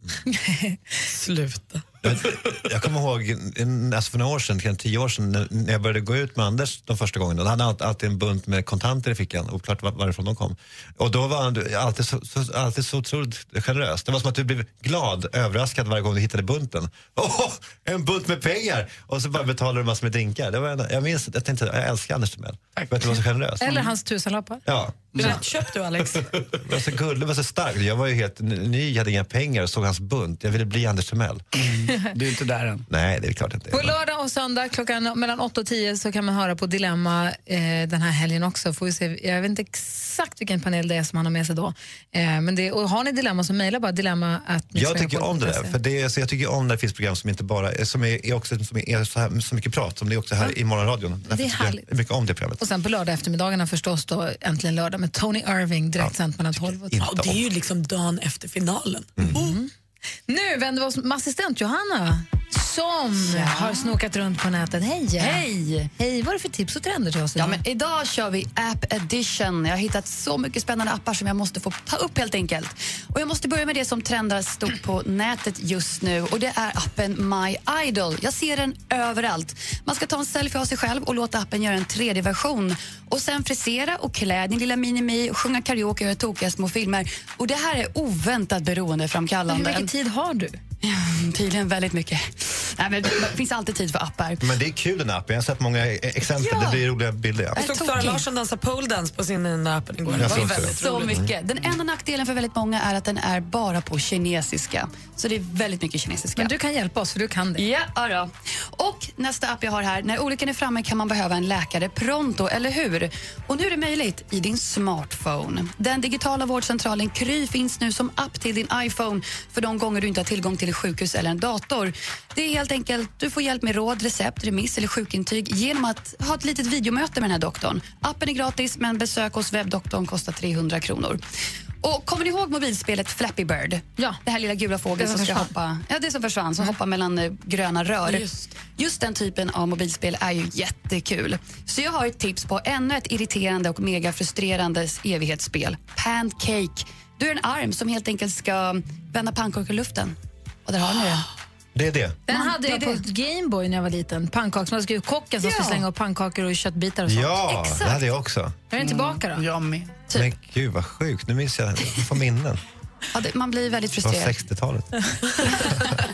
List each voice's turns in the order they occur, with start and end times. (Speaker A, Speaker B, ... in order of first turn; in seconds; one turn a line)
Speaker A: 0.2-0.8
Speaker B: 1.1-1.9
Speaker C: 2.0-23.9
Speaker D: 22.8-23.1
Speaker A: 23.6-24.6
Speaker C: 24.6-25.4
Speaker B: 25.1-26.3
Speaker C: 26.6-31.4
Speaker D: 31.5-32.9
Speaker C: 32.9-34.0
Speaker A: 33.7-45.8
Speaker C: 44.7-52.6
Speaker A: 51.3-51.9
Speaker A: 52.6-57.0
Speaker C: 56.0-57.4
Speaker B: 57.0-59.5
Speaker A: 59.3-59.7
Speaker A: 60.3-67.6
Speaker E: 63.3-63.9
Speaker E: 65.2-65.9
Speaker E: 67.3-89.9
Speaker A: 89.5-90.6
Speaker E: 90.8-94.4
Speaker C: 94.4-98.1
Speaker E: 96.4-96.8
Speaker B: 97.5-101.2
Speaker E: 97.6-98.2
Speaker C: 100.2-101.3
Speaker E: 100.2-106.5
Speaker A: 106.3-107.7
Speaker E: 107.5-131.2
Speaker E: 131.8-151.3
Speaker A: 135.0-135.5
Speaker B: 138.1-138.5
Speaker C: 151.7-152.2
Speaker A: 152.3-158.0
Speaker E: 152.3-153.0
Speaker E: 155.4-155.8
Speaker C: 157.1-158.6
Speaker A: 158.7-159.4
Speaker D: 158.8-160.0
Speaker C: 160.1-162.6
Speaker E: 163.1-164.4
Speaker C: 164.0-164.9